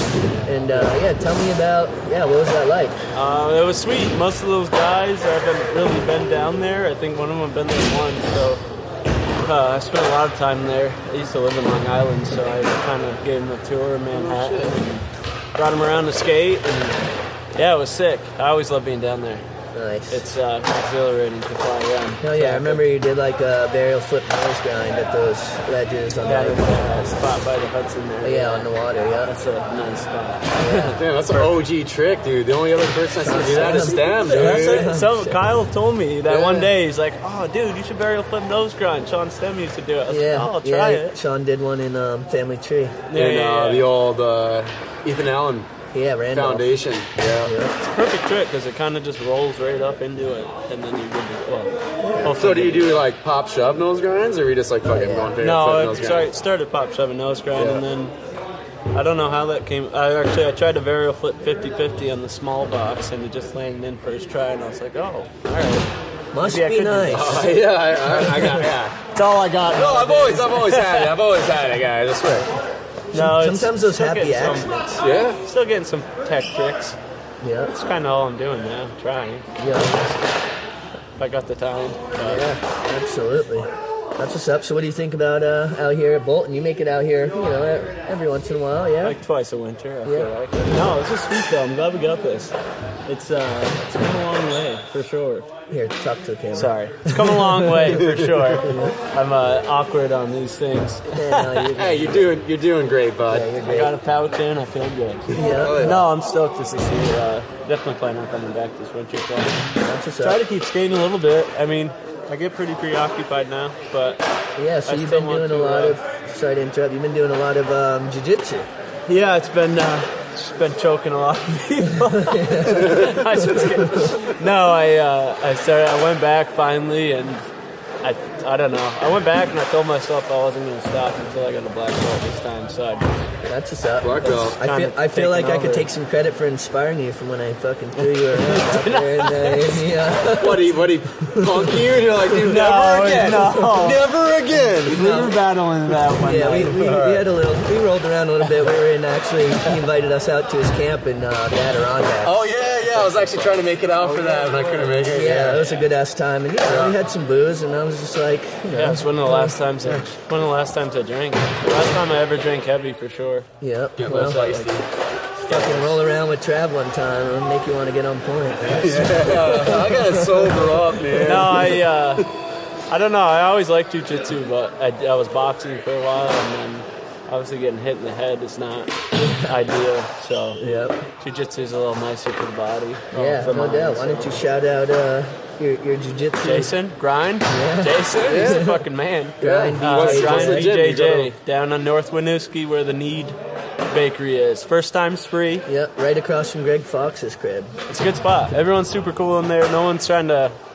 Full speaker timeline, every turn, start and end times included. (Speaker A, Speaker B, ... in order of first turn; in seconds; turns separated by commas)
Speaker A: 0.5-3.0, Speaker B: 3.1-8.6, Speaker B: 9.4-19.4, Speaker C: 14.1-14.8, Speaker A: 19.7-20.3, Speaker B: 20.1-22.8, Speaker A: 22.2-26.9, Speaker B: 26.2-28.7, Speaker A: 28.2-29.3, Speaker B: 29.2-30.9, Speaker A: 30.6-31.4, Speaker C: 30.9-34.9, Speaker A: 33.2-35.4, Speaker B: 33.5-41.1, Speaker A: 36.3-36.7, Speaker A: 40.0-43.0, Speaker B: 43.1-43.9, Speaker C: 43.1-45.7, Speaker A: 45.9-46.7, Speaker C: 46.3-47.5, Speaker A: 47.4-47.7, Speaker B: 47.8-53.0, Speaker A: 52.0-52.4, Speaker C: 52.3-56.3, Speaker A: 54.9-55.3, Speaker B: 55.4-58.1, Speaker C: 57.5-57.8, Speaker B: 58.9-65.9, Speaker A: 66.3-67.5, Speaker B: 66.4-67.5, Speaker C: 67.1-69.0, Speaker A: 68.1-68.5, Speaker B: 69.0-71.1, Speaker C: 69.7-72.5, Speaker B: 73.1-74.7, Speaker A: 73.1-75.0, Speaker C: 75.0-75.4, Speaker B: 75.4-77.0, Speaker A: 77.4-77.7, Speaker B: 77.7-80.2, Speaker A: 79.6-80.0, Speaker B: 81.2-82.5, Speaker A: 82.2-89.2, Speaker B: 89.0-92.5, Speaker A: 90.0-90.3, Speaker B: 93.1-95.5, Speaker A: 95.7-98.0, Speaker B: 96.5-101.7, Speaker C: 97.9-98.6, Speaker A: 98.6-98.9, Speaker A: 101.1-102.3, Speaker C: 101.7-103.5, Speaker A: 103.3-103.9, Speaker B: 103.6-109.6, Speaker A: 105.3-106.0, Speaker C: 105.4-106.0, Speaker A: 109.8-110.4, Speaker B: 110.2-114.2, Speaker A: 114.6-118.7, Speaker B: 114.9-116.0, Speaker B: 119.1-127.4, Speaker A: 122.2-124.1, Speaker C: 122.7-124.4, Speaker B: 128.0-133.1, Speaker A: 133.5-140.7, Speaker C: 134.0-134.6, Speaker B: 134.2-135.9, Speaker B: 138.2-139.9, Speaker C: 140.4-145.1, Speaker A: 141.2-141.7, Speaker B: 142.4-144.0, Speaker B: 144.8-146.8, Speaker A: 144.9-145.4, Speaker A: 146.2-153.1, Speaker C: 146.6-147.2, Speaker C: 152.2-155.6, Speaker B: 154.1-154.9, Speaker A: 155.1-159.6, Speaker C: 156.6-156.9, Speaker B: 158.7-163.5, Speaker A: 163.6-164.7, Speaker C: 164.0-164.8, Speaker B: 164.1-164.5, Speaker B: 165.4-166.0, Speaker A: 165.5-171.3, Speaker C: 168.7-171.8, Speaker B: 171.2-172.2, Speaker B: 172.9-180.6, Speaker A: 179.2-179.5, Speaker A: 180.6-181.0, Speaker B: 181.2-184.0, Speaker A: 183.1-186.7, Speaker B: 186.4-193.4, Speaker A: 187.5-188.8, Speaker C: 188.2-188.7, Speaker A: 189.4-190.7, Speaker C: 189.4-191.3, Speaker B: 193.9-195.6, Speaker A: 195.7-197.7, Speaker B: 197.9-200.6